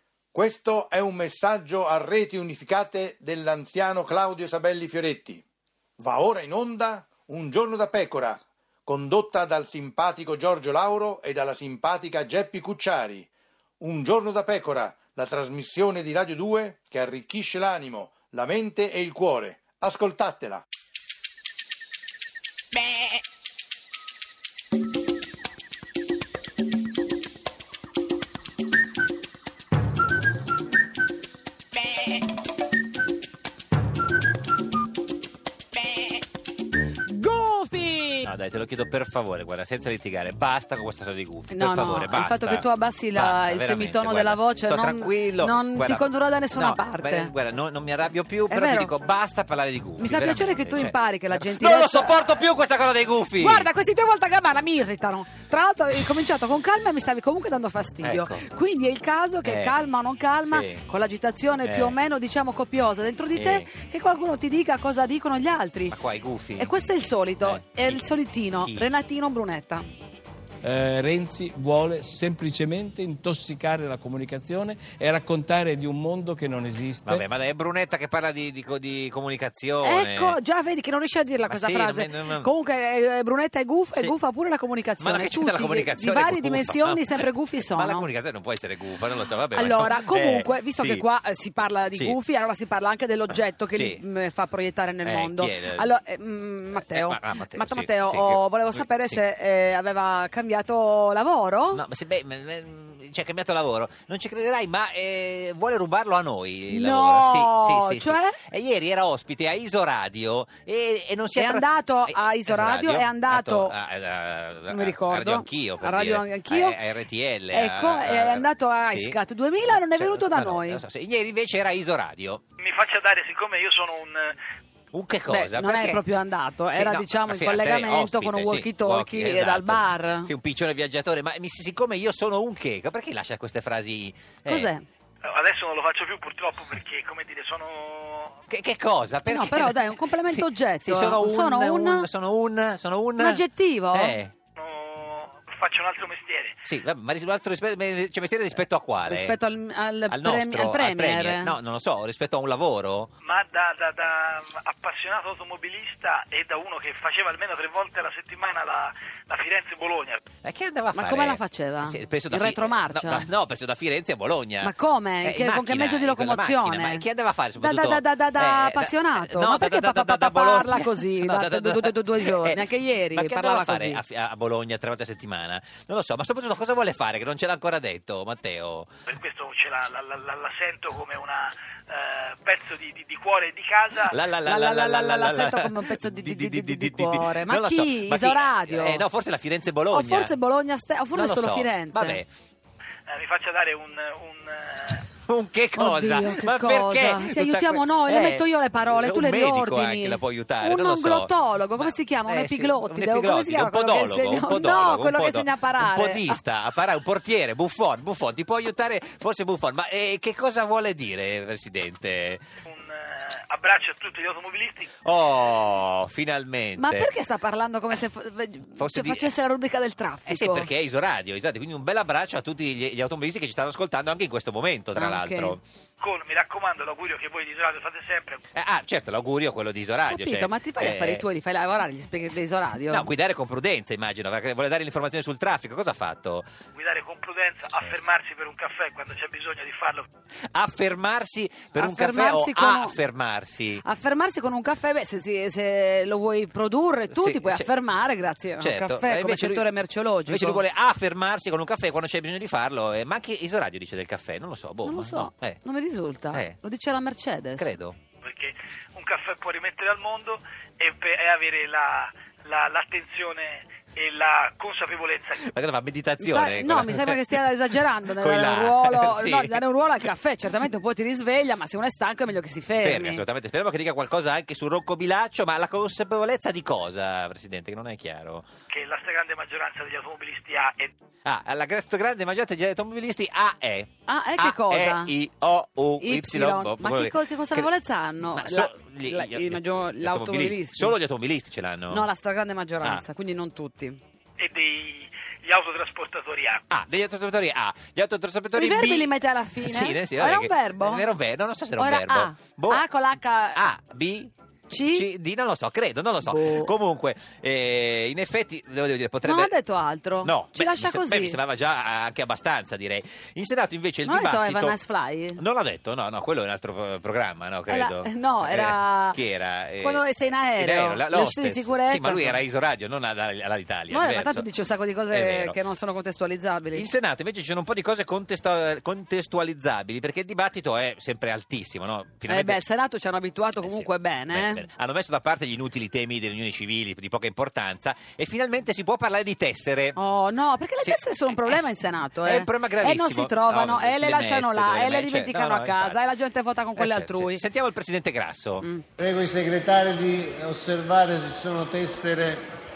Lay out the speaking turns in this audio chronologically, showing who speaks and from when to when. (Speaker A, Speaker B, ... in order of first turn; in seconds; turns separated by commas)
Speaker A: 0.3-5.4, Speaker A: 6.0-13.3, Speaker A: 13.8-20.6, Speaker B: 37.1-38.3, Speaker C: 38.2-53.7, Speaker B: 41.5-47.3, Speaker B: 48.5-48.9, Speaker B: 50.0-52.4, Speaker B: 53.4-66.0, Speaker C: 58.0-58.4, Speaker C: 59.5-59.7, Speaker C: 60.5-60.8, Speaker C: 61.6-62.0, Speaker C: 63.4-63.7, Speaker C: 65.9-66.7, Speaker B: 66.6-69.9, Speaker C: 67.4-68.1, Speaker C: 68.6-68.9, Speaker D: 70.6-77.3, Speaker C: 77.1-80.4, Speaker B: 79.8-88.1, Speaker C: 81.5-82.5, Speaker C: 85.0-91.0, Speaker B: 89.5-101.8, Speaker C: 93.7-94.0, Speaker C: 95.0-95.9, Speaker C: 96.8-99.2, Speaker C: 101.7-119.2, Speaker B: 106.7-108.4, Speaker B: 111.4-113.8, Speaker B: 114.7-116.8, Speaker B: 117.5-120.8, Speaker C: 119.7-122.4, Speaker E: 122.6-124.4, Speaker C: 124.9-126.0, Speaker B: 125.3-130.3, Speaker C: 126.7-134.7, Speaker B: 134.5-134.8, Speaker E: 135.2-138.3, Speaker C: 138.5-144.3, Speaker B: 139.3-142.1, Speaker B: 143.2-144.2, Speaker E: 144.6-146.6, Speaker C: 146.7-149.4, Speaker B: 149.1-151.5, Speaker C: 150.1-153.1, Speaker E: 153.2-160.2, Speaker C: 160.4-164.7, Speaker B: 160.9-163.3, Speaker B: 164.6-167.1, Speaker C: 165.2-178.9, Speaker B: 167.6-174.0, Speaker E: 179.1-184.2, Speaker C: 184.1-190.3, Speaker B: 184.4-189.0, Speaker B: 189.9-192.2, Speaker C: 191.2-192.3, Speaker E: 193.1-195.1, Speaker C: 195.3-212.4, Speaker B: 195.8-206.4, Speaker E: 212.7-214.9, Speaker C: 215.0-217.1, Speaker B: 216.8-220.7, Speaker C: 218.8-219.3, Speaker C: 220.3-225.6, Speaker B: 224.9-225.6, Speaker E: 226.0-228.4, Speaker C: 228.6-231.2, Speaker B: 230.1-233.1, Speaker C: 232.9-236.5, Speaker E: 236.8-240.1, Speaker C: 240.5-243.8, Speaker B: 241.8-243.0, Speaker B: 243.8-250.6, Speaker C: 247.1-247.7, Speaker C: 248.6-249.7, Speaker C: 250.3-255.6, Speaker B: 254.8-257.7, Speaker C: 256.3-256.6, Speaker C: 257.6-258.0, Speaker E: 258.2-265.4, Speaker C: 265.4-267.4, Speaker B: 266.2-273.2, Speaker C: 268.1-269.6, Speaker C: 272.8-278.5, Speaker E: 278.7-280.9, Speaker C: 281.2-287.7, Speaker B: 284.1-285.1, Speaker B: 286.0-290.9, Speaker C: 288.3-292.1, Speaker B: 291.9-294.0, Speaker E: 294.4-296.6, Speaker C: 296.7-299.1, Speaker B: 298.5-301.1, Speaker C: 299.6-302.8, Speaker B: 301.8-303.6, Speaker C: 303.5-304.3, Speaker B: 304.7-305.1, Speaker C: 304.9-309.5, Speaker B: 306.3-306.7, Speaker B: 309.2-311.4, Speaker C: 310.2-314.8, Speaker B: 314.1-315.4, Speaker C: 315.4-320.1, Speaker B: 317.7-319.2, Speaker B: 319.8-322.4, Speaker C: 320.6-324.5, Speaker B: 323.9-326.9, Speaker C: 325.1-325.6, Speaker C: 326.7-332.6, Speaker B: 332.3-334.6, Speaker C: 333.6-340.0, Speaker B: 340.0-347.4, Speaker C: 340.8-341.7, Speaker C: 342.2-346.0, Speaker C: 346.8-348.7, Speaker F: 349.0-352.4